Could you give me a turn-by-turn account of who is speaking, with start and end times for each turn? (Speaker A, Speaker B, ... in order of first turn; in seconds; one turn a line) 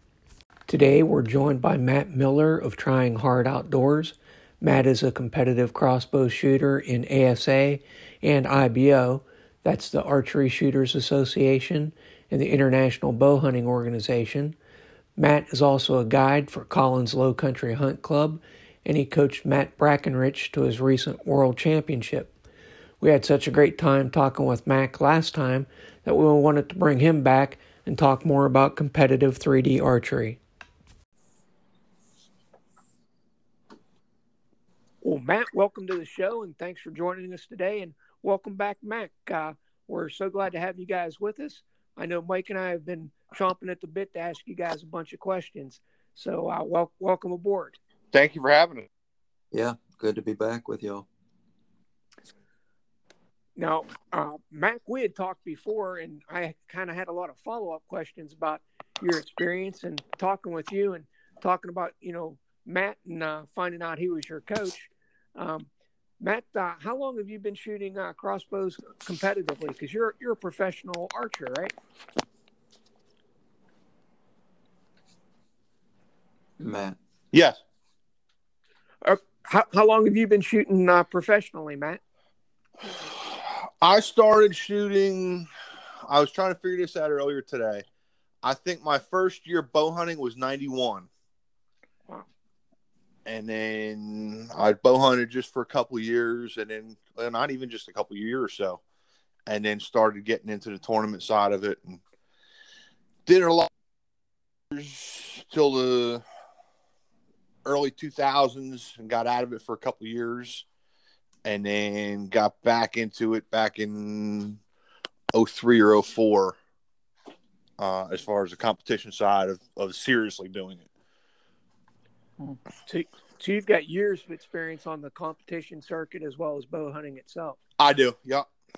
Speaker A: 0.7-14.6
Speaker A: 15.2-22.3
Speaker A: 23.0-30.4
Speaker A: 35.0-47.8
Speaker B: 48.1-48.9
Speaker C: 49.5-51.1
Speaker A: 53.6-65.7
Speaker A: 66.2-71.7
Speaker C: 76.6-77.0
Speaker B: 77.3-77.6
Speaker A: 79.0-82.0
Speaker B: 83.2-85.5
Speaker B: 86.1-87.8
Speaker B: 88.4-91.1
Speaker B: 93.3-98.8
Speaker B: 99.5-102.0
Speaker B: 103.3-103.7
Speaker B: 104.7-106.2
Speaker B: 107.7-110.7
Speaker B: 111.4-114.6
Speaker B: 115.3-116.6
Speaker B: 117.8-120.9
Speaker A: 122.9-127.6
Speaker B: 127.8-128.5